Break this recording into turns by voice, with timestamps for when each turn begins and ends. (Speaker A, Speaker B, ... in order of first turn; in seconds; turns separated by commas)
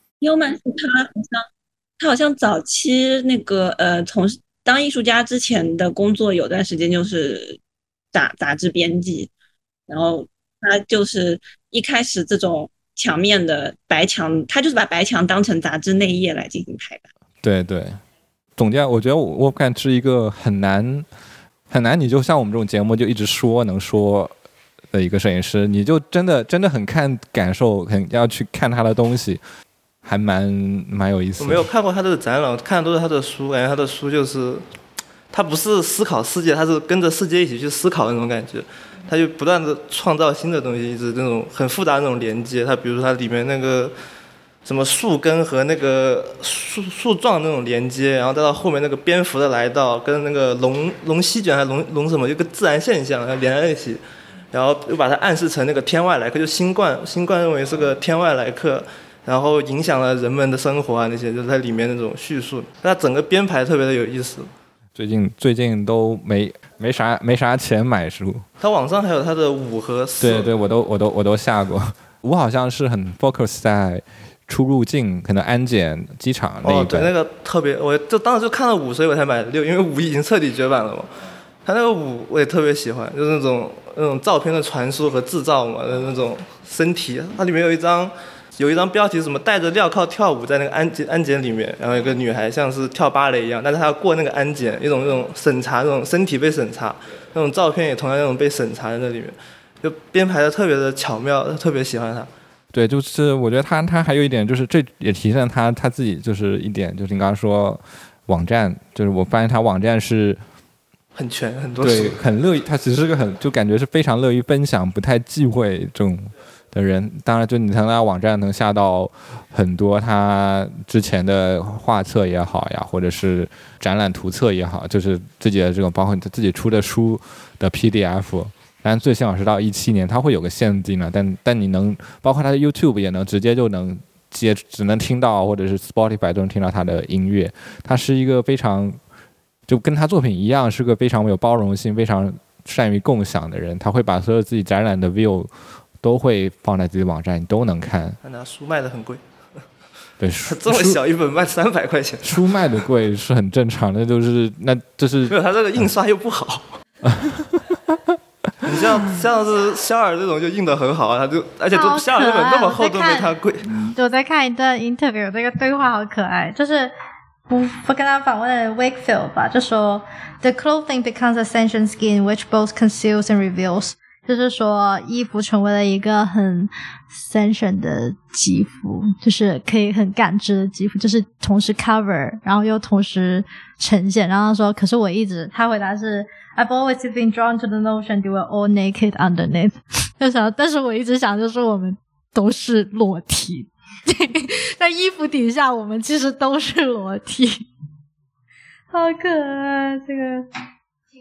Speaker A: 0.2-1.5, Speaker A: 2.0-7.6, Speaker A: 8.1-9.3, Speaker A: 9.9-17.1, Speaker B: 17.4-18.0, Speaker B: 18.6-21.1, Speaker B: 21.7-24.4, Speaker B: 24.9-29.4, Speaker B: 30.0-31.7, Speaker C: 31.4-34.6, Speaker C: 35.3-44.0, Speaker C: 44.6-64.5, Speaker B: 65.0-68.5, Speaker C: 68.6-70.5, Speaker B: 70.2-77.1, Speaker C: 76.6-81.1, Speaker C: 81.7-102.3, Speaker B: 102.7-110.4, Speaker C: 111.2-112.2, Speaker B: 111.8-139.0, Speaker B: 139.7-148.2, Speaker C: 148.2-149.6, Speaker B: 150.2-151.0, Speaker C: 150.5-152.4, Speaker B: 152.2-155.4, Speaker C: 155.3-156.8, Speaker B: 157.1-158.2, Speaker C: 158.6-163.7, Speaker D: 161.7-166.9, Speaker D: 167.5-197.7, Speaker D: 198.9-200.5